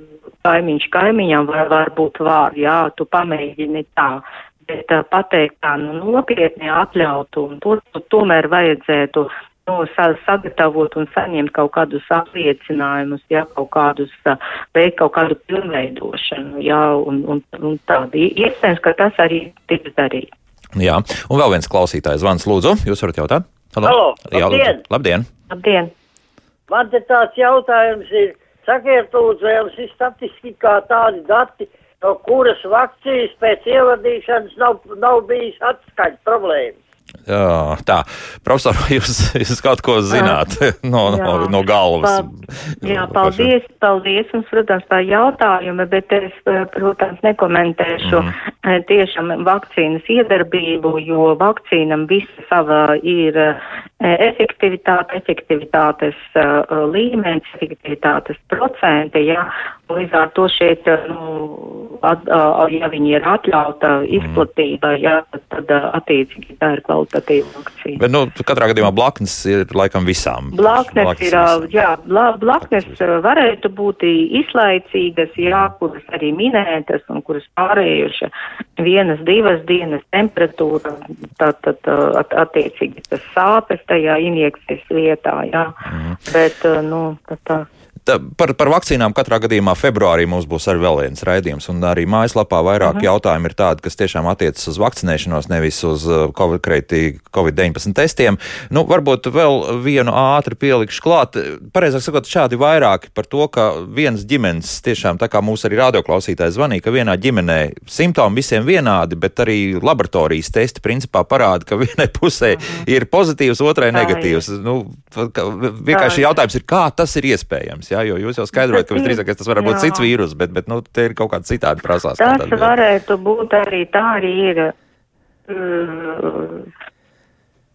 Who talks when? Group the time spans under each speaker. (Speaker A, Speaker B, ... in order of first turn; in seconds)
Speaker A: 0.4-20.3, 25.5-25.9, 40.1-40.4, 41.0-42.3, 42.8-68.0, 70.5-87.7, 92.8-93.1, 112.5-112.8, 113.9-114.4, 115.9-116.2, 118.6-120.1, 122.2-124.7, 125.5-126.7
Speaker B: 20.7-25.3, 37.3-43.5, 48.0-48.3, 64.1-64.4, 68.0-71.7, 72.6-73.0, 75.4-75.7, 85.8-86.2, 88.0-122.7
Speaker C: 23.8-24.8, 26.7-36.8